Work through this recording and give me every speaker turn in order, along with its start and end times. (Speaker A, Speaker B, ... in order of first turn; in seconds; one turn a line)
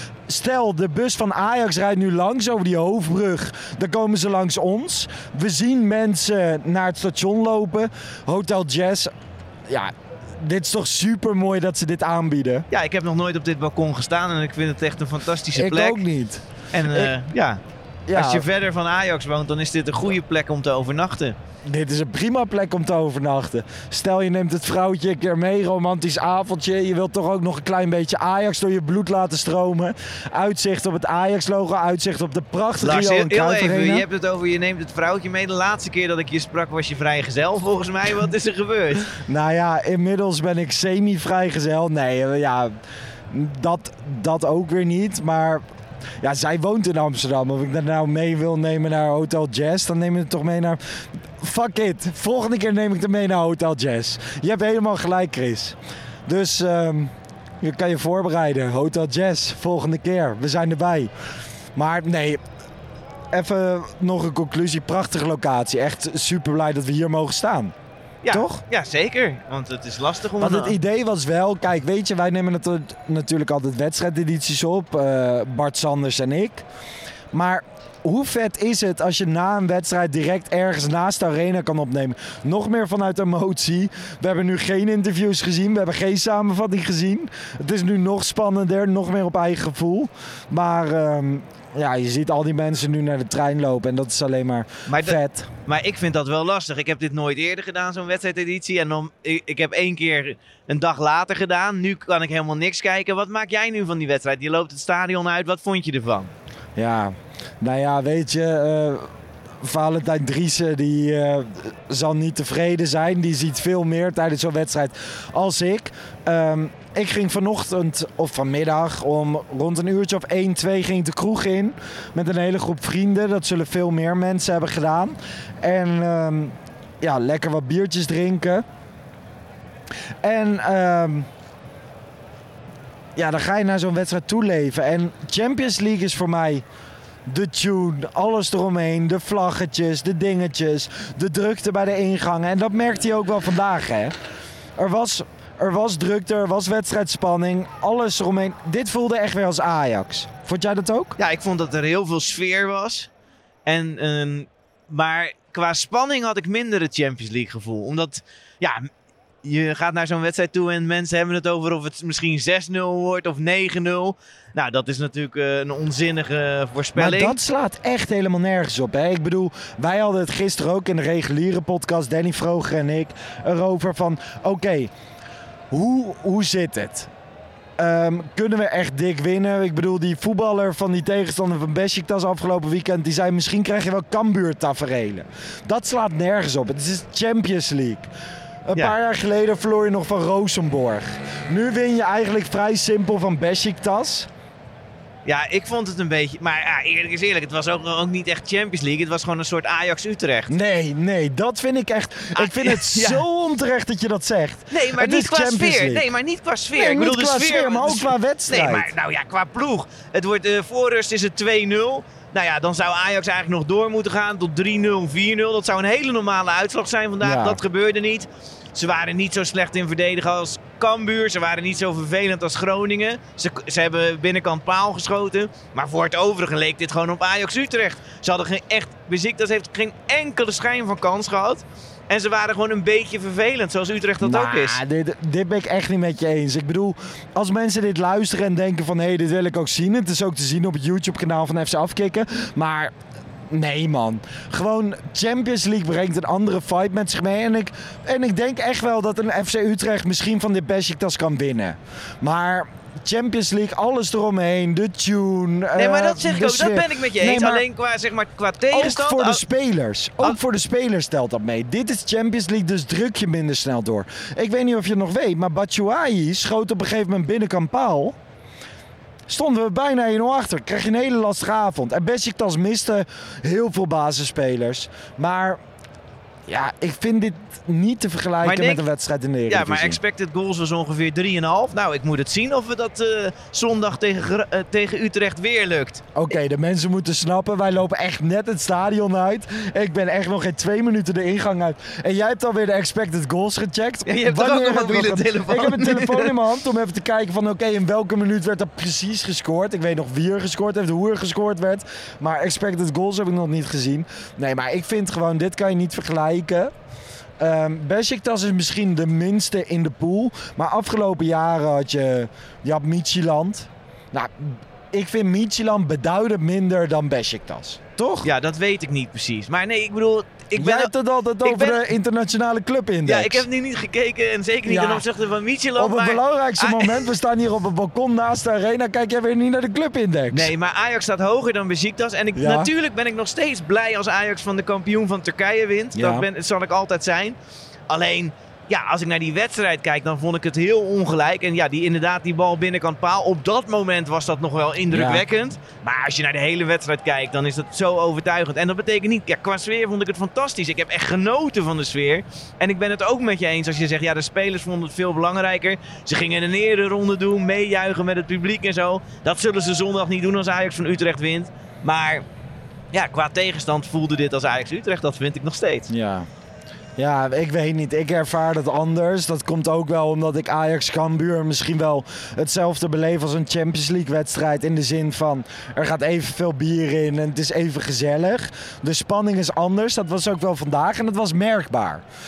Speaker A: 0.3-9.1
Speaker A: 9.7-12.7
Speaker B: 12.7-16.0
Speaker A: 15.5-17.1
Speaker B: 16.7-17.6
Speaker A: 18.1-18.4
Speaker B: 18.1-21.3
Speaker A: 21.6-34.0
Speaker B: 32.8-39.1
Speaker A: 39.1-42.7
Speaker A: 43.3-45.6
Speaker A: 46.2-61.1
Speaker A: 61.7-62.4
Speaker A: 63.3-67.7
Speaker B: 68.2-70.8
Speaker A: 68.3-68.6
Speaker A: 70.4-76.6
Speaker A: 77.3-95.5
Speaker B: 94.9-106.3
Speaker A: 106.8-109.1
Speaker A: 109.6-128.6
Speaker A: 130.2-131.3
Speaker A: 133.2-136.6
Speaker A: 137.2-144.2
Speaker A: 144.8-151.2
Speaker B: 151.2-153.1
Speaker B: 153.6-158.9
Speaker B: 159.4-167.4
Speaker A: 166.9-174.9
Speaker A: 175.7-177.1
Speaker A: 177.8-188.1
Speaker A: 188.7-194.3
Speaker B: 195.2-200.5
Speaker A: 200.5-206.0
Speaker B: 202.3-203.2
Speaker B: 204.7-234.8
Speaker A: 206.7-208.9
Speaker A: 217.2-217.6
Speaker A: 234.2-242.9
Speaker A: 243.5-257.6
Speaker B: 255.8-259.4
Speaker A: 258.7-268.1
Speaker A: 269.3-275.6
Speaker A: 276.5-280.0
Speaker B: 278.4-278.8
Speaker B: 279.5-286.0
Speaker A: 286.1-306.7
Speaker B: 294.1-296.3
Speaker A: 307.4-318.3
Speaker B: 318.2-321.8
Speaker A: 320.5-323.4
Speaker B: 323.1-327.0
Speaker A: 324.6-325.0
Speaker A: 325.8-330.5
Speaker B: 330.3-337.4
Speaker A: 332.4-332.7
Speaker A: 335.9-336.2
Speaker B: 337.9-362.2
Speaker A: 344.9-345.2
Speaker B: 362.9-365.9
Speaker A: 365.9-366.3
Speaker A: 367.0-382.0